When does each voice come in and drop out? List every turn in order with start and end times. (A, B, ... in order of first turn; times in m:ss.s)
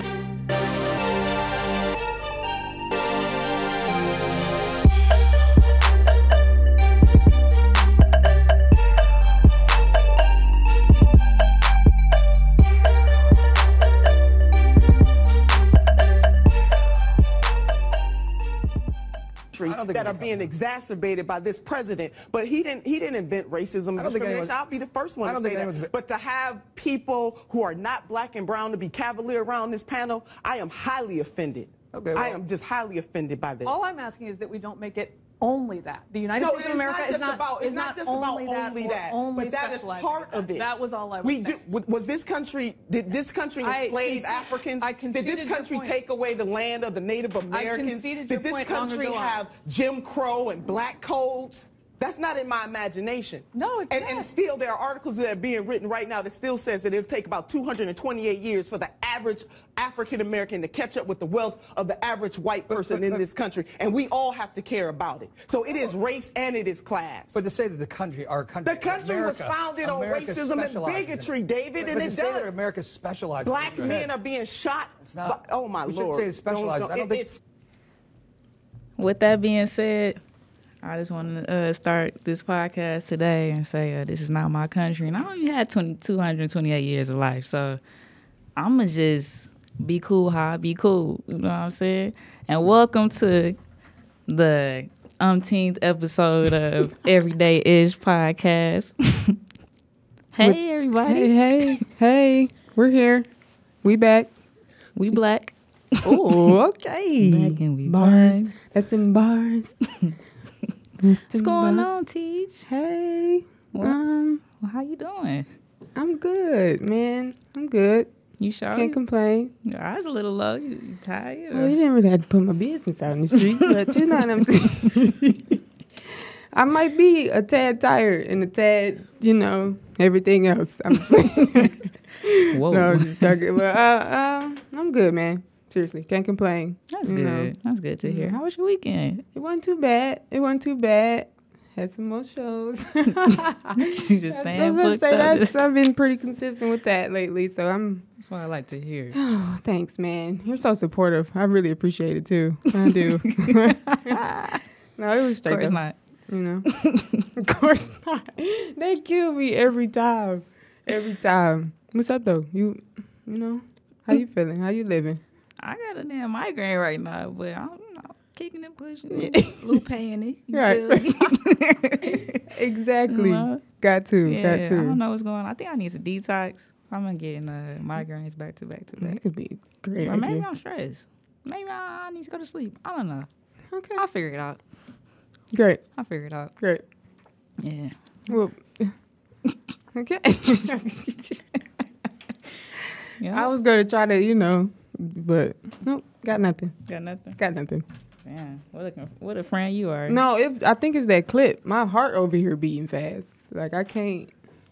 0:19.5-0:33.8 A
0:19.6-0:20.5 B
0:24.0-0:24.6 B
0:25.2-0:25.9 B
0:31.9-0:32.4 B
0:33.6-0:41.6 C
0:36.3-1:07.4 A
0:43.6-0:46.0 C
0:47.5-0:49.5 C
0:53.5-0:54.3 C
1:07.3-1:14.1 B
1:08.6-1:12.6 A
1:13.4-1:17.4 A
1:15.0-1:17.3 B
1:19.0-1:20.2 D
1:20.8-1:27.8 D
1:28.6-1:33.6 D
1:34.3-1:39.4 D
1:40.3-1:41.8 D
1:40.4-1:43.3 E
1:43.8-1:44.3 E
1:45.0-1:46.6 D
1:46.0-1:49.7 E
1:47.2-1:48.5 D
1:51.0-1:51.9 E
1:51.4-1:52.7 D
1:52.7-1:54.4 E
1:54.6-1:55.5 D
1:56.0-1:58.1 E
1:58.4-1:59.0 D
1:58.7-1:59.5 E
1:59.6-2:01.8 D
2:01.5-2:17.5 E
2:12.5-2:13.4 D
2:16.9-2:19.2 D
2:18.0-2:18.4 E
2:19.3-2:28.1 E
2:23.7-2:25.6 D
2:28.2-2:29.2 D
2:29.1-2:34.2 E
2:32.9-2:34.6 D
2:35.0-2:36.7 E
2:35.4-2:36.0 D
2:36.7-2:37.2 D
2:37.4-2:45.2 E
2:45.6-2:52.4 D
2:49.1-2:49.8 E
2:50.5-2:51.3 E
2:52.1-2:55.0 E
2:53.1-2:53.6 D
2:54.2-2:59.2 D
2:59.0-3:00.4 E
3:00.0-3:03.3 D
3:03.7-3:04.0 E
3:04.0-3:04.6 D
3:05.5-3:05.9 E
3:06.0-3:06.5 D
3:06.6-3:06.8 E
3:07.6-3:08.0 D
3:08.3-3:09.0 E
3:09.9-3:11.4 E
3:13.2-3:13.5 D
3:13.3-3:16.8 E
3:16.9-3:17.4 D
3:17.4-3:17.8 E
3:18.2-3:20.2 D
3:20.1-3:24.3 E